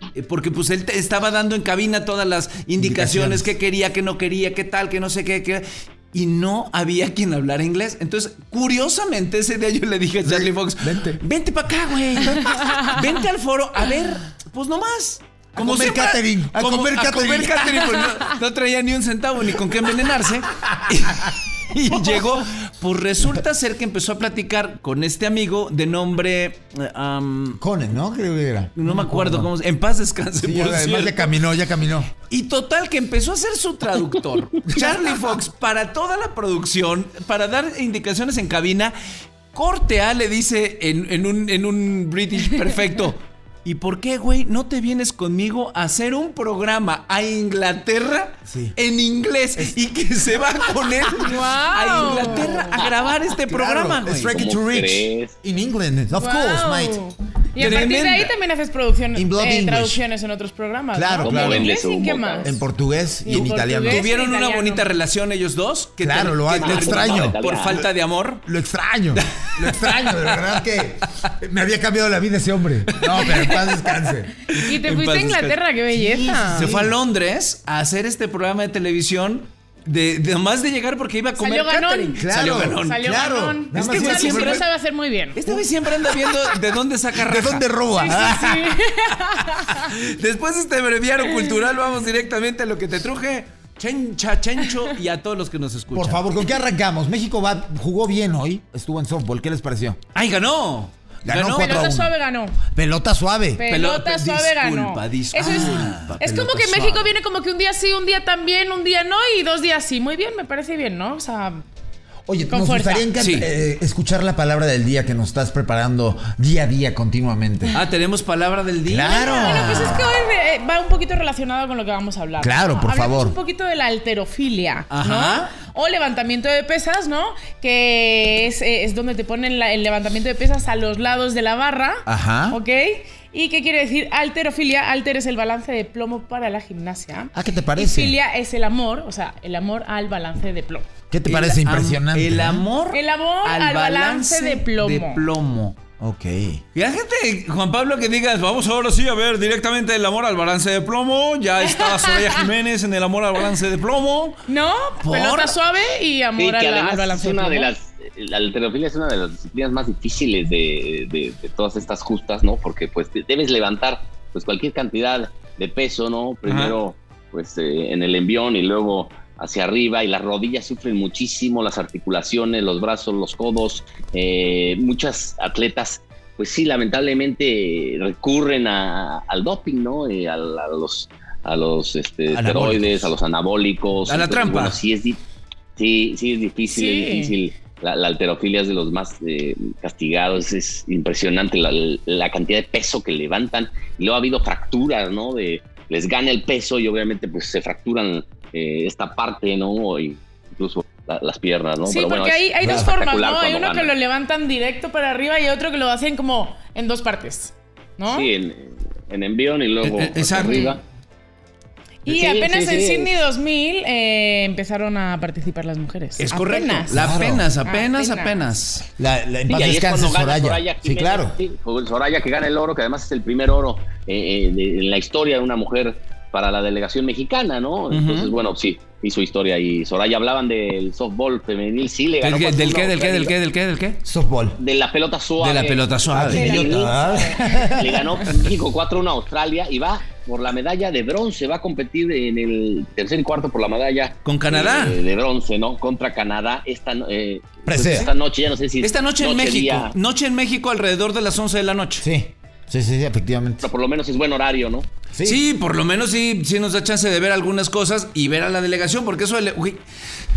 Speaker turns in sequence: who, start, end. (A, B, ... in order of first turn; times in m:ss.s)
0:00.2-0:27.6 A
0:02.8-0:03.5 B
0:10.2-0:11.2 B
0:15.6-0:18.1 B
0:27.6-0:29.5 B
0:28.8-0:31.3 A
0:30.4-0:32.1 B
0:32.3-0:39.0 A
0:39.5-0:54.4 A
0:48.5-0:48.8 B
0:51.2-0:52.6 C
0:53.5-0:57.0 B
0:54.3-0:55.4 D
0:56.1-1:02.6 C
0:57.6-0:58.3 A
0:59.2-1:00.0 B
1:00.9-1:01.7 B
1:01.2-1:02.6 D
1:02.4-1:04.1 B
1:03.2-1:04.9 C
1:03.3-1:08.4 A
1:06.0-1:07.9 B
1:06.5-1:07.9 D
1:08.5-1:14.3 B
1:09.4-1:10.3 A
1:12.9-1:15.6 A
1:14.5-1:16.7 C
1:15.9-1:16.9 B
1:16.5-1:23.0 A
1:21.4-1:25.5 C
1:22.2-1:24.7 B
1:23.7-1:24.7 A
1:25.4-1:27.6 A
1:27.2-1:28.8 B
1:27.9-1:29.9 C
1:29.7-1:36.2 A
1:35.9-1:40.0 B
1:40.1-1:41.9 A
1:41.2-1:42.1 B
1:41.6-1:42.6 C
1:42.7-1:43.6 B
1:43.6-1:51.7 C
1:43.7-1:47.1 A
1:45.4-1:46.2 B
1:52.3-1:57.8 B
1:52.5-1:53.1 C
1:53.2-1:53.5 A
1:57.7-2:00.0 A
1:58.9-2:00.1 B
1:59.1-2:20.9 C
2:02.4-2:03.4 B
2:04.9-2:05.5 A
2:12.1-2:12.6 B
2:17.3-2:18.2 B
2:21.1-2:22.6 B
2:21.3-2:25.8 A
2:22.9-2:25.2 C
2:26.0-2:26.6 B
2:26.8-2:34.4 A
2:31.6-2:32.5 C
2:34.5-2:37.7 C
2:35.0-2:35.6 A
2:36.4-3:05.2 D
2:46.4-2:46.8 A
3:02.3-3:03.1 A
3:04.1-3:04.8 A
3:05.8-3:23.9 D
3:06.7-3:07.4 C
3:21.9-3:28.3 C
3:22.6-3:22.9 B
3:28.1-3:30.8 D
3:29.8-3:30.7 A
3:30.4-3:30.8 C
3:32.0-3:36.9 C
3:32.1-3:33.2 D
3:36.2-3:38.9 A
3:36.9-3:37.5 B
3:37.7-3:38.5 C
3:39.0-3:41.4 B
3:39.5-3:53.3 D
3:47.9-3:48.3 A
3:52.2-3:54.0 A
3:54.1-3:54.6 B
3:54.6-3:57.0 D
3:55.4-3:56.9 A
3:56.1-3:58.1 B
3:56.3-3:57.6 C
3:57.7-4:09.9 D
4:04.2-4:05.0 A
4:07.7-4:08.1 B
4:08.8-4:12.0 A
4:12.0-4:13.7 B
4:13.6-4:14.9 D
4:15.1-4:15.4 B
4:15.2-4:19.8 A